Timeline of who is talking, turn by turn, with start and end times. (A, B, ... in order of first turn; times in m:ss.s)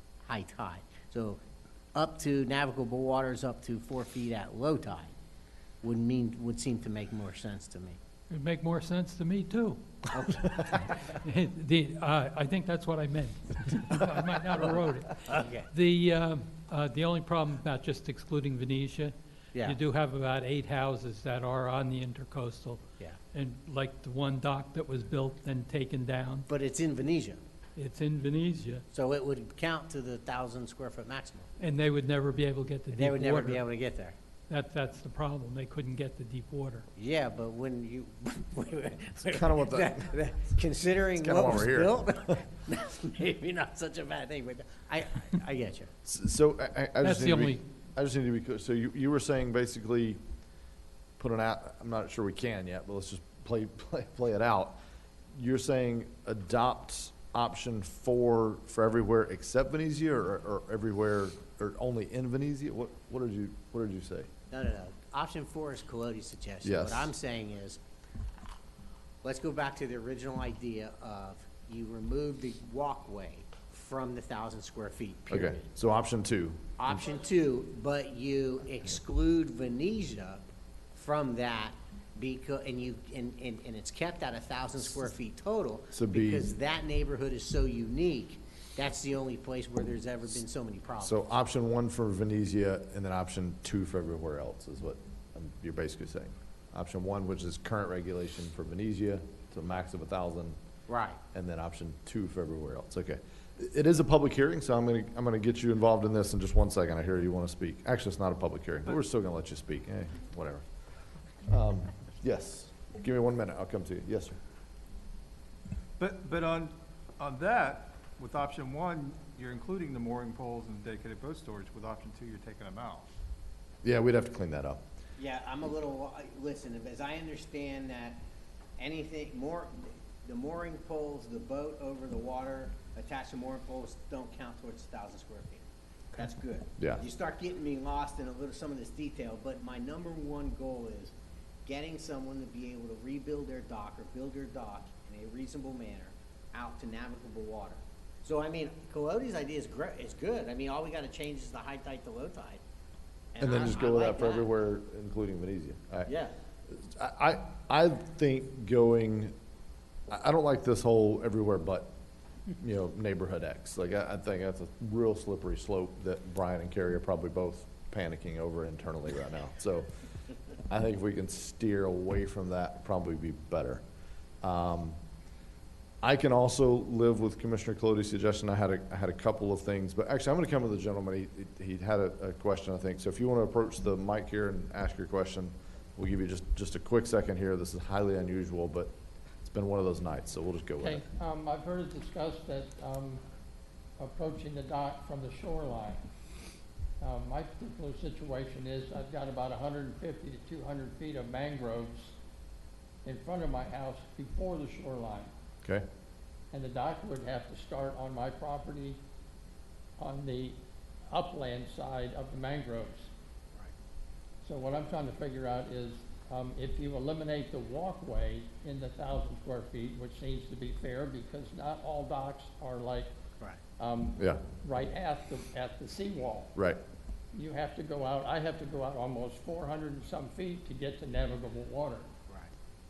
0:00.2-0:01.4 A
0:01.9-0:05.1 A
0:05.8-0:08.0 A
0:08.3-0:22.8 B
0:10.1-0:10.9 A
0:15.3-0:15.7 A
0:23.3-0:26.5 B
0:26.5-0:27.4 A
0:27.8-0:28.8 B
0:28.9-0:31.5 A
0:31.6-0:33.6 B
0:32.9-0:34.1 A
0:34.5-0:36.9 B
0:37.0-0:45.9 A
0:39.3-0:40.0 C
0:41.2-0:42.0 C
0:46.0-0:50.2 C
0:47.0-0:47.6 B
0:51.2-0:54.8 C
0:55.3-1:04.3 C
1:04.5-1:07.8 A
1:06.6-1:07.1 C
1:09.2-1:15.6 A
1:15.3-1:16.9 C
1:16.8-1:20.4 A
1:20.9-1:31.2 A
1:25.9-1:26.5 C
1:31.0-1:40.6 C
1:40.9-1:41.2 A
1:41.3-1:50.6 C
1:51.4-1:54.4 C
1:56.0-2:03.1 D
2:03.8-2:04.8 C
2:05.2-2:08.2 A
2:08.8-2:21.1 A
2:21.6-2:32.6 A
2:33.3-2:34.5 A
2:33.4-2:36.1 C
2:36.1-2:36.3 A
2:36.7-2:39.3 C
2:40.1-2:41.9 C
2:42.6-2:49.9 C
2:50.7-2:53.8 C
2:54.4-2:55.0 C
2:56.0-3:08.9 C
3:09.4-3:11.0 C
3:10.8-3:13.2 E
3:14.0-3:16.1 E
3:17.0-3:22.2 E
3:23.0-3:25.3 E
3:26.5-3:29.0 E
3:30.0-3:33.1 E
3:34.4-3:43.1 E
3:43.8-3:46.5 E
3:46.5-3:46.8 C
3:47.3-3:52.1 E